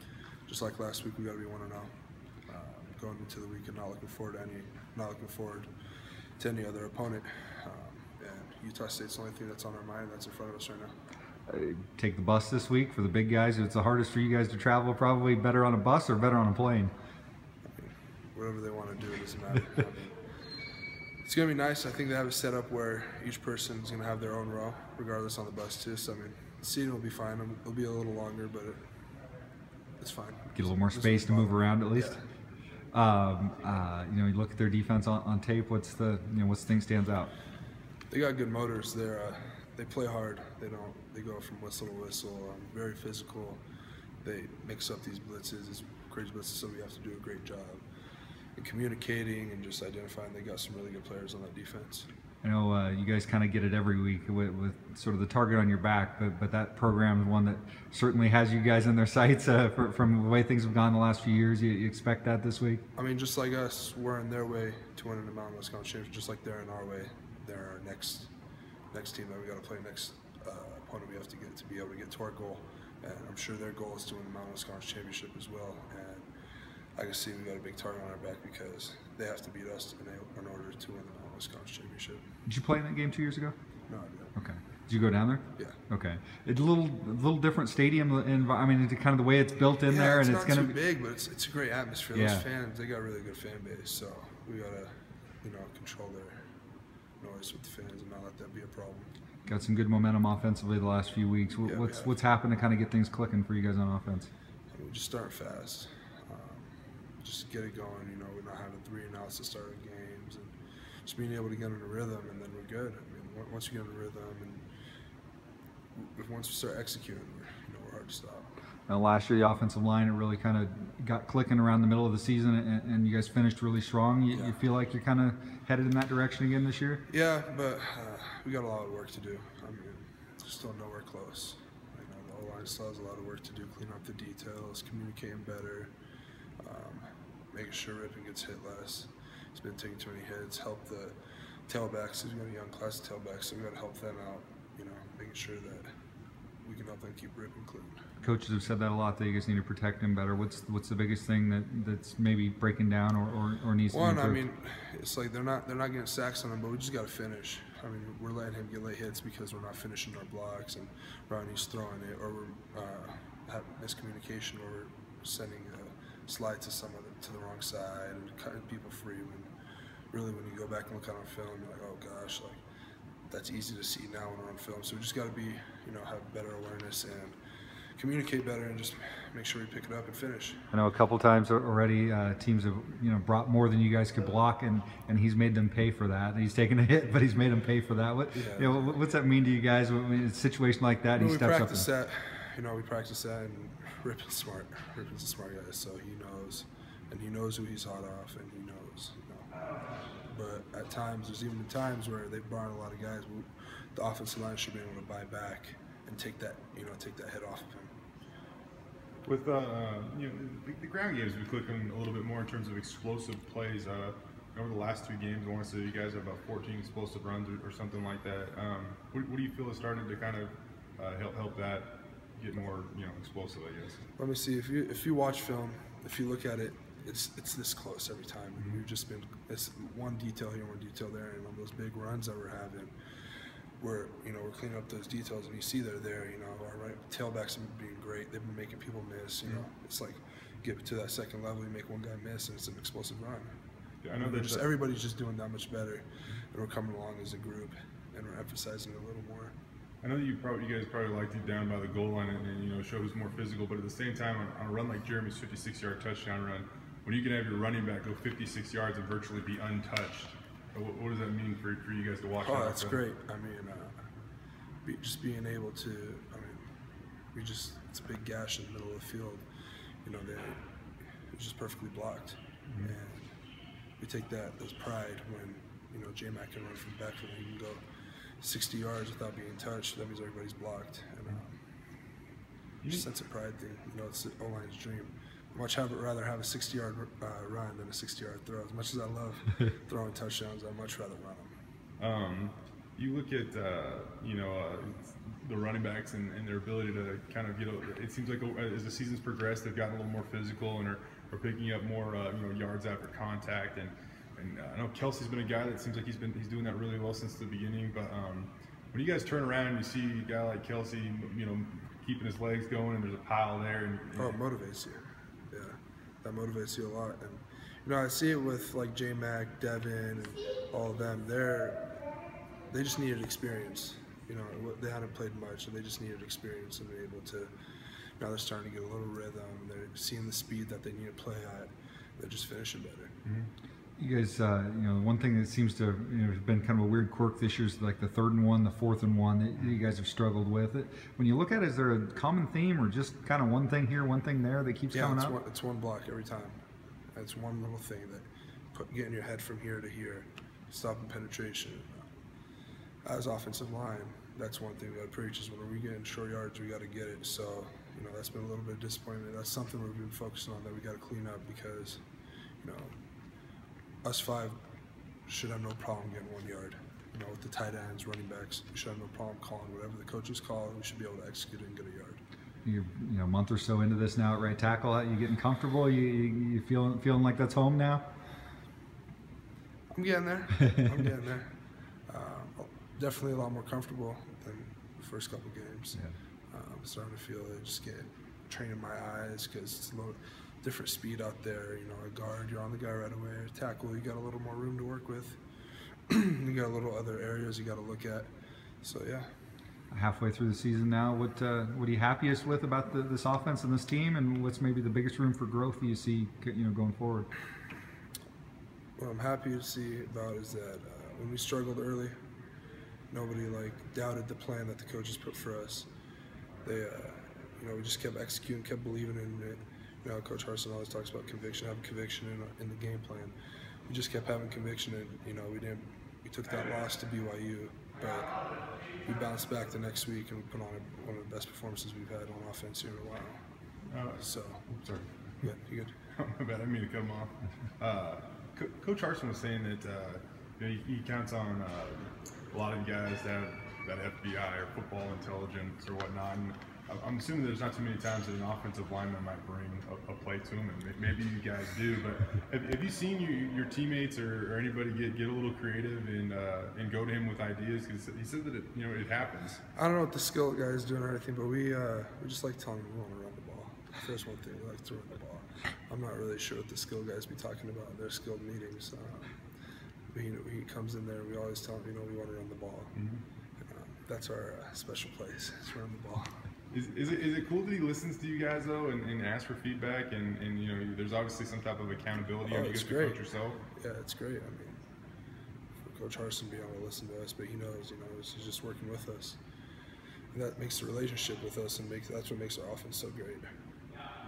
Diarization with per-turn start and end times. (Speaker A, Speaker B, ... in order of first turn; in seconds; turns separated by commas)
Speaker A: 0.5-1.9, Speaker A: 2.5-5.7, Speaker A: 6.4-10.9, Speaker B: 11.5-16.9, Speaker A: 17.7-20.2, Speaker A: 21.2-28.8, Speaker A: 30.0-32.2, Speaker B: 30.5-32.1, Speaker B: 32.9-37.3, Speaker A: 38.1-43.6, Speaker A: 44.2-47.8, Speaker A: 48.6-52.1, Speaker B: 52.4-62.8, Speaker A: 63.0-68.3, Speaker A: 68.9-76.3, Speaker A: 77.0-82.2, Speaker B: 82.5-83.5, Speaker A: 83.9-84.3, Speaker B: 84.3-90.8, Speaker A: 89.8-96.4, Speaker B: 92.1-92.4, Speaker A: 97.2-99.1, Speaker B: 99.5-104.3, Speaker A: 101.6-102.1, Speaker A: 104.7-110.5, Speaker A: 111.0-114.6, Speaker A: 115.9-118.5, Speaker B: 118.9-127.0, Speaker A: 124.3-124.6, Speaker A: 127.1-135.9, Speaker A: 136.6-141.2, Speaker A: 141.7-145.9, Speaker A: 146.6-148.1, Speaker B: 148.2-154.4, Speaker A: 153.9-169.5, Speaker A: 170.1-172.6, Speaker A: 173.3-177.3, Speaker A: 178.0-180.6, Speaker B: 180.7-191.9, Speaker A: 188.3-189.0, Speaker A: 191.2-199.5, Speaker A: 200.2-207.9, Speaker C: 209.2-224.0, Speaker A: 224.2-232.9, Speaker A: 233.8-243.5, Speaker C: 244.0-244.7, Speaker A: 244.2-249.5, Speaker C: 250.0-263.0, Speaker A: 262.4-264.0, Speaker A: 264.9-266.6, Speaker A: 267.3-269.4, Speaker A: 270.1-270.6, Speaker A: 271.3-273.3, Speaker A: 274.0-277.8, Speaker A: 278.4-281.6, Speaker A: 282.9-291.5, Speaker C: 292.0-314.4, Speaker A: 314.2-321.9, Speaker A: 322.7-327.5, Speaker A: 328.2-333.1, Speaker B: 334.0-345.4, Speaker A: 344.9-346.6, Speaker A: 347.1-352.1, Speaker A: 353.0-362.0, Speaker A: 362.6-363.0, Speaker A: 364.0-364.6, Speaker A: 365.3-372.2, Speaker B: 372.6-378.1, Speaker A: 379.9-381.5, Speaker A: 382.1-386.0, Speaker A: 386.5-395.4, Speaker A: 396.1-398.3, Speaker A: 398.8-399.3, Speaker B: 399.9-407.3, Speaker A: 409.0-412.1, Speaker A: 413.1-415.9, Speaker A: 416.6-423.4, Speaker A: 423.9-428.4, Speaker A: 429.0-433.4, Speaker C: 433.9-435.1, Speaker A: 434.2-434.7, Speaker A: 435.4-435.9, Speaker C: 436.2-459.6, Speaker A: 459.8-469.4, Speaker A: 470.1-472.9, Speaker C: 472.9-473.2, Speaker A: 473.6-476.3, Speaker C: 476.7-483.6, Speaker A: 482.4-483.2, Speaker A: 483.8-484.8, Speaker A: 485.8-489.4, Speaker A: 490.3-493.5